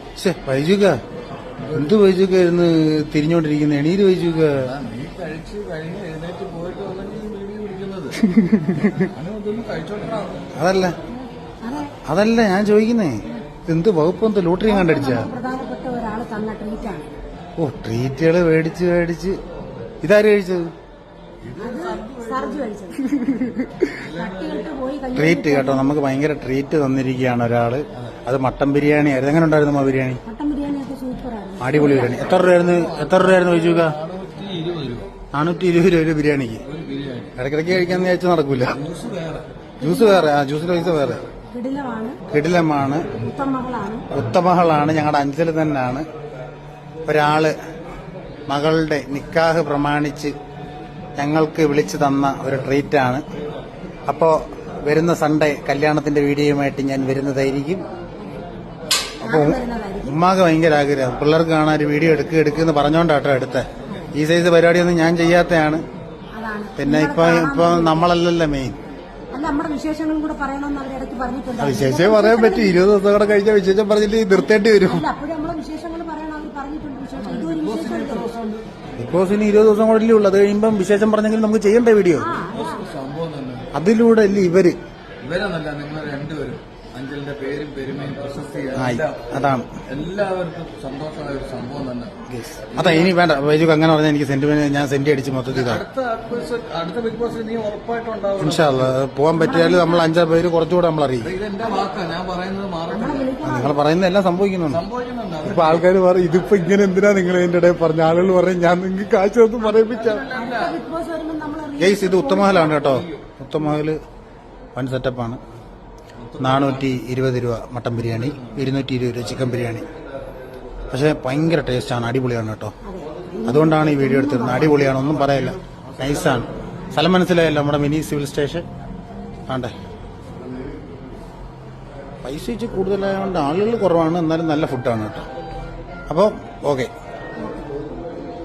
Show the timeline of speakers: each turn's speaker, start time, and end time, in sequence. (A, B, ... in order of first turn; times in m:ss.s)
0:00.2-0:01.0 A
0:01.6-0:01.9 B
0:01.7-0:04.7 A
0:04.6-0:08.2 B
0:08.2-0:09.1 A
0:09.0-0:10.5 B
0:10.6-0:11.0 A
0:11.1-0:11.9 C
0:12.0-0:15.3 A
0:14.6-0:17.1 C
0:17.6-0:19.4 A
0:20.0-0:20.7 A
0:21.4-0:22.7 B
0:21.6-0:23.1 C
0:23.1-0:23.9 A
0:24.0-0:24.7 B
0:24.0-0:25.9 C
0:25.1-0:30.2 A
0:30.2-0:32.3 C
0:31.6-0:34.0 A
0:32.1-0:35.1 B
0:35.3-0:36.6 A
0:36.6-0:37.3 B
0:37.4-0:38.8 A
0:38.7-0:39.4 B
0:39.8-0:40.4 C
0:39.8-0:41.2 A
0:41.5-0:42.2 C
0:42.3-0:43.0 A
0:43.2-0:44.0 C
0:44.1-0:46.0 A
0:47.0-0:47.6 A
0:48.5-0:50.3 A
0:51.2-0:53.2 A
0:54.1-0:57.8 A
0:59.2-1:00.2 C
0:59.2-1:05.8 A
1:06.3-1:08.0 C
1:06.8-1:08.8 A
1:09.3-1:12.8 C
1:11.6-1:15.1 A
1:14.3-1:18.3 C
1:17.2-1:18.6 B
1:19.0-1:22.3 A
1:22.2-1:22.9 C
1:22.4-1:23.7 B
1:23.7-1:24.8 A
1:25.2-1:32.1 B
1:28.8-1:29.7 A
1:32.3-1:35.8 A
1:32.7-1:33.2 B
1:35.5-1:39.0 B
1:38.4-1:41.3 A
1:39.3-1:40.1 C
1:41.2-1:43.3 B
1:41.6-1:41.9 C
1:42.9-1:43.8 C
1:43.4-1:44.8 A
1:44.7-1:45.9 B
1:45.4-1:50.2 A
1:49.6-1:50.8 B
1:50.3-1:52.9 C
1:51.8-1:54.0 A
1:52.8-1:53.1 B
1:54.8-1:55.4 A
1:56.2-1:57.0 B
1:56.4-1:59.9 A
1:58.1-1:58.7 B
2:00.9-2:02.7 A
2:02.8-2:04.7 C
2:03.4-2:08.6 A
2:04.6-2:06.5 B
2:09.5-2:09.7 A
2:12.2-2:15.3 A
2:16.1-2:16.9 A
2:17.4-2:17.6 C